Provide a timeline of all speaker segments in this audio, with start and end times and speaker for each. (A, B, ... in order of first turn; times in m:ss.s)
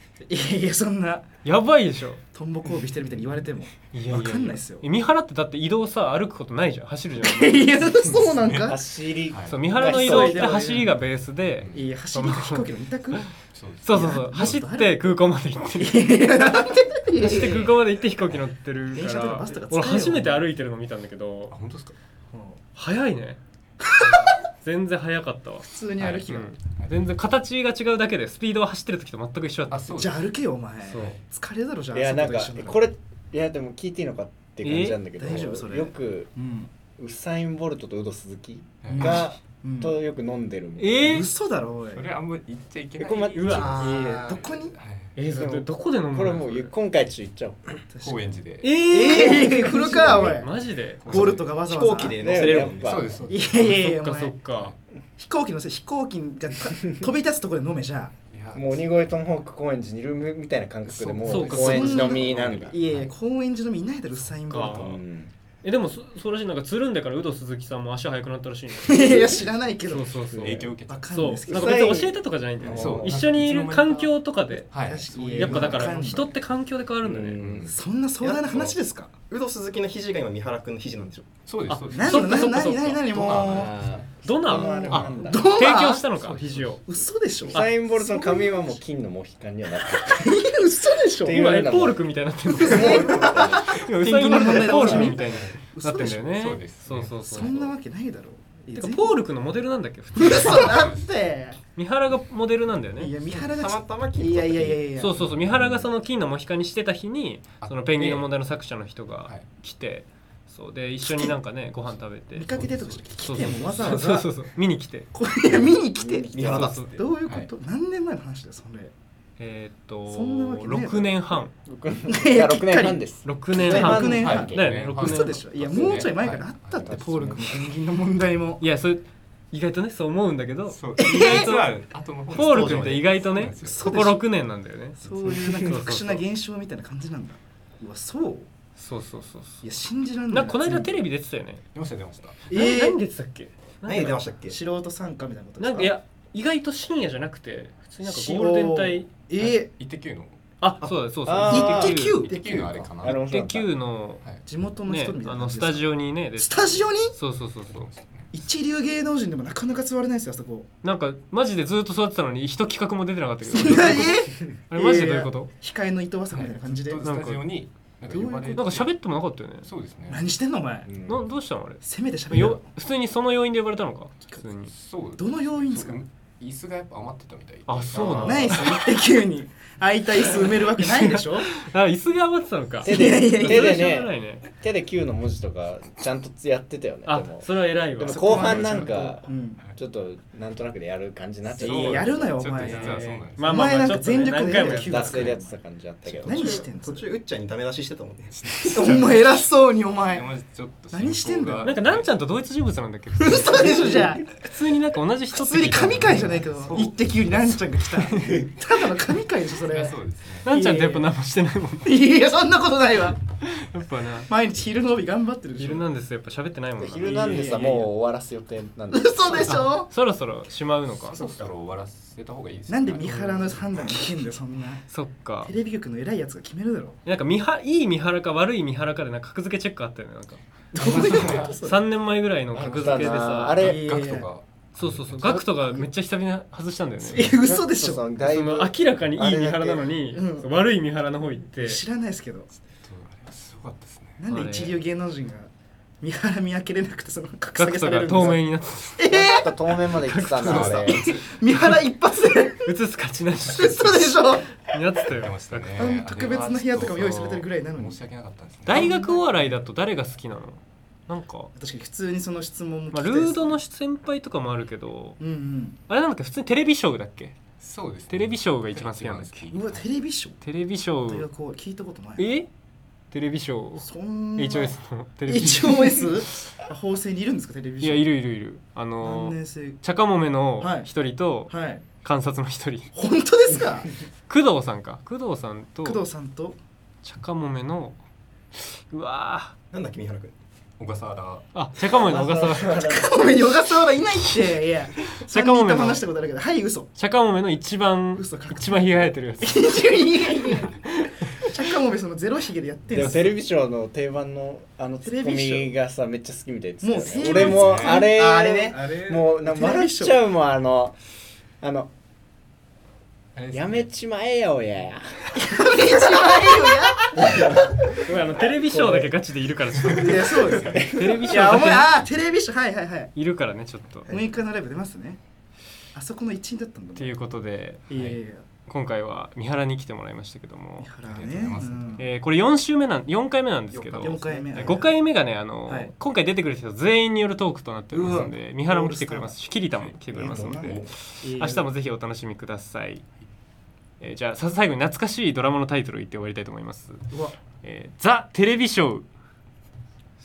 0:00.2-0:01.3 A
0:01.4-0:02.2 B
0:02.3-0:04.9 A
0:03.9-0:07.8 B
0:07.2-0:08.8 A
0:08.1-0:08.7 C
0:08.6-0:10.5 D
0:09.3-0:09.6 C
0:09.5-0:13.2 B
0:09.7-0:11.0 A
0:11.6-0:11.9 C
0:11.7-0:13.3 A
0:13.5-0:14.0 C
0:13.8-0:16.3 B
0:13.9-0:15.1 A
0:15.8-0:17.7 A
0:17.2-0:21.5 B
0:18.9-0:20.5 A
0:21.5-0:21.9 C
0:22.3-0:22.6 A
0:22.7-0:23.4 B
0:24.0-0:25.7 B
0:25.6-0:26.6 A
0:26.0-0:26.9 C
0:26.2-0:30.0 B
0:29.7-0:30.4 C
0:29.9-0:32.8 A
0:30.8-0:31.1 B
0:30.9-0:31.2 C
0:31.9-0:36.3 D
0:34.6-0:35.0 B
0:35.2-0:36.7 A
0:37.0-0:41.2 D
0:38.8-0:39.2 C
0:38.9-0:39.9 A
0:40.8-0:41.3 B
0:41.0-0:42.1 A
0:41.9-0:43.9 C
0:43.0-0:44.0 D
0:43.5-0:44.8 A
0:43.6-0:44.5 E
0:44.5-0:45.1 C
0:45.2-0:46.7 B
0:45.3-0:47.8 D
0:47.9-0:50.5 A
0:48.0-0:48.7 C
0:48.6-0:51.3 B
0:51.0-0:51.6 C
0:51.0-0:52.3 A
0:51.6-0:53.0 E
0:52.2-0:53.1 D
0:52.7-0:53.8 C
0:53.2-0:54.4 A
0:53.5-0:54.7 B
0:55.2-0:58.1 A
0:58.3-0:58.8 C
0:58.5-1:02.9 D
1:00.8-1:03.1 C
1:01.2-1:02.1 B
1:01.4-1:05.0 A
1:04.5-1:05.0 B
1:04.7-1:05.3 D
1:05.6-1:09.3 B
1:08.8-1:12.1 A
1:09.8-1:14.7 B
1:10.3-1:11.2 C
1:11.5-1:13.1 D
1:12.7-1:16.2 C
1:14.7-1:16.3 A
1:15.3-1:17.4 B
1:17.0-1:17.7 D
1:17.3-1:17.8 C
1:17.7-1:19.2 A
1:18.2-1:18.7 E
1:19.3-1:21.3 E
1:21.4-1:24.0 C
1:21.7-1:23.1 B
1:21.9-1:23.7 A
1:23.3-1:25.5 D
1:24.2-1:26.8 B
1:24.5-1:26.0 A
1:24.9-1:25.4 C
1:26.2-1:26.8 C
1:26.8-1:28.8 A
1:27.4-1:30.3 D
1:30.0-1:31.4 A
1:31.2-1:32.0 D
1:31.3-1:37.7 B
1:32.5-1:36.2 A
1:32.5-1:35.2 D
1:35.2-1:35.6 C
1:36.3-1:37.7 C
1:37.2-1:39.2 A
1:38.8-1:40.8 B
1:40.2-1:41.6 A
1:40.4-1:41.0 C
1:41.8-1:43.1 B
1:43.0-1:45.2 A
1:43.2-1:44.9 E
1:45.0-1:52.5 B
1:45.2-1:45.9 C
1:47.6-1:48.3 C
1:51.0-1:51.4 A
1:52.3-1:54.3 A
1:52.5-1:54.0 C
1:53.2-1:55.1 B
1:55.1-1:58.9 A
1:55.5-1:56.8 D
1:56.3-1:57.1 E
1:56.5-1:56.9 B
1:57.2-1:57.5 C
1:59.4-2:01.5 B
2:00.1-2:01.2 A
2:01.6-2:04.7 D
2:02.1-2:03.0 A
2:03.2-2:05.4 B
2:03.5-2:08.6 A
2:04.2-2:07.7 C
2:08.6-2:11.7 B
2:10.7-2:14.0 C
2:11.0-2:11.6 A
2:12.3-2:16.2 B
2:12.3-2:13.1 E
2:13.4-2:14.2 A
2:15.0-2:18.5 A
2:18.8-2:19.7 B
2:19.6-2:21.0 A
2:20.3-2:21.6 B
2:21.7-2:22.4 C
2:22.5-2:23.0 A
2:22.5-2:24.2 B
2:23.8-2:24.6 E
2:24.4-2:25.9 A
2:25.6-2:29.5 B
2:28.0-2:29.7 A
2:29.8-2:30.4 C
2:30.6-2:32.3 B
2:31.2-2:32.1 D
2:31.4-2:32.9 A
2:31.9-2:33.2 C
2:32.9-2:33.7 D
2:33.3-2:34.2 B
2:34.4-2:37.1 A
2:34.8-2:37.9 B
2:37.7-2:38.3 C
2:38.3-2:40.7 A
2:40.8-2:45.5 B
2:43.4-2:47.1 A
2:46.3-2:48.9 C
2:47.0-2:47.5 B
2:48.1-2:48.6 A
2:48.4-2:49.7 B
2:49.6-2:50.3 C
2:50.1-2:50.9 A
2:50.8-2:51.2 D
2:51.0-2:54.7 B
2:51.8-2:52.6 A
2:54.7-2:58.9 C
2:55.2-2:56.0 A
2:57.7-2:58.8 B
2:57.9-3:01.5 A
3:00.1-3:04.4 B
3:02.8-3:03.9 A
3:02.8-3:12.4 D
3:07.0-3:08.6 B
3:08.0-3:09.6 A
3:08.3-3:09.8 C
3:11.5-3:13.6 C
3:11.5-3:17.1 A
3:12.6-3:15.3 B
3:14.6-3:16.7 D
3:16.2-3:18.6 E
3:18.4-3:19.4 C
3:18.6-3:20.3 A
3:20.0-3:22.1 C
3:20.9-3:21.8 A
3:21.6-3:26.9 B
3:23.2-3:24.2 A
3:25.3-3:31.1 A
3:25.7-3:26.8 C
3:29.6-3:30.5 C
3:30.4-3:31.9 B
3:31.8-3:33.2 A
3:33.4-3:34.3 B
3:34.3-3:35.8 A
3:35.6-3:37.6 B
3:36.8-3:39.7 D
3:37.0-3:37.9 A
3:38.9-3:39.9 A
3:39.3-3:41.3 B
3:41.0-3:43.6 C
3:42.7-3:44.8 A
3:43.0-3:43.5 B
3:44.9-3:45.5 B
3:45.4-3:47.0 A
3:47.0-3:53.7 B
3:50.7-3:51.8 A
3:50.8-3:51.6 C
3:52.5-3:53.8 D
3:52.5-3:55.4 C
3:53.6-3:54.3 A
3:54.8-3:57.3 B
3:55.2-3:55.8 D
3:57.1-3:58.1 A
3:57.2-3:59.9 D
3:58.2-4:01.8 B
4:00.1-4:00.5 A
4:01.6-4:02.5 A
4:02.7-4:04.2 C
4:04.2-4:05.5 A
4:04.3-4:04.8 B
4:06.0-4:08.4 A
4:07.6-4:09.1 B
4:09.0-4:09.7 A
4:09.0-4:11.0 D
4:09.8-4:11.1 B
4:10.4-4:11.1 C
4:10.4-4:12.7 A
4:12.6-4:17.4 B
4:13.5-4:14.5 A
4:15.2-4:18.9 C
4:15.7-4:18.0 A
4:18.7-4:19.6 A
4:18.7-4:21.5 B
4:21.6-4:23.6 A
4:22.9-4:25.2 B
4:25.2-4:25.8 A
4:25.9-4:27.4 B
4:27.6-4:29.9 C
4:28.1-4:29.5 B
4:29.5-4:30.4 A
4:30.4-4:31.3 B
4:31.1-4:32.3 A
4:32.2-4:32.5 B
4:33.1-4:36.1 B
4:33.8-4:38.0 A
4:37.8-4:42.9 B
4:39.0-4:39.8 A
4:40.6-4:40.9 A
4:41.5-4:41.8 A
4:42.9-4:43.9 A
4:44.3-4:46.0 B
4:45.8-4:46.6 A
4:47.0-4:48.0 B
4:48.5-4:49.5 B
4:49.7-4:50.3 E
4:50.8-4:51.4 C
4:51.5-4:52.8 B
4:51.9-4:53.3 D
4:52.0-4:56.9 A
4:55.2-4:56.0 B
4:57.0-4:59.8 B
4:58.2-5:03.3 A
5:02.9-5:11.0 D
5:05.0-5:05.7 A
5:06.8-5:10.2 A
5:07.2-5:08.1 C
5:08.7-5:09.2 C
5:11.6-5:11.9 D
5:13.3-5:13.9 C
5:13.5-5:16.3 D
5:15.3-5:17.6 A
5:17.1-5:19.1 D
5:18.0-5:22.0 B
5:19.8-5:23.1 A
5:20.6-5:21.3 D
5:23.1-5:24.2 B
5:24.1-5:25.2 A
5:25.9-5:27.1 A
5:27.0-5:30.9 B
5:27.9-5:28.4 A
5:30.8-5:32.0 A
5:31.0-5:32.1 C
5:32.0-5:43.0 B
5:33.7-5:34.8 C
5:33.9-5:35.0 A
5:35.6-5:35.9 A
5:37.9-5:39.4 A
5:38.0-5:38.3 C
5:39.7-5:40.9 C
5:40.1-5:41.7 A
5:40.1-5:40.8 D
5:44.0-5:47.0 B
5:47.1-5:47.4 A
5:47.6-5:49.1 B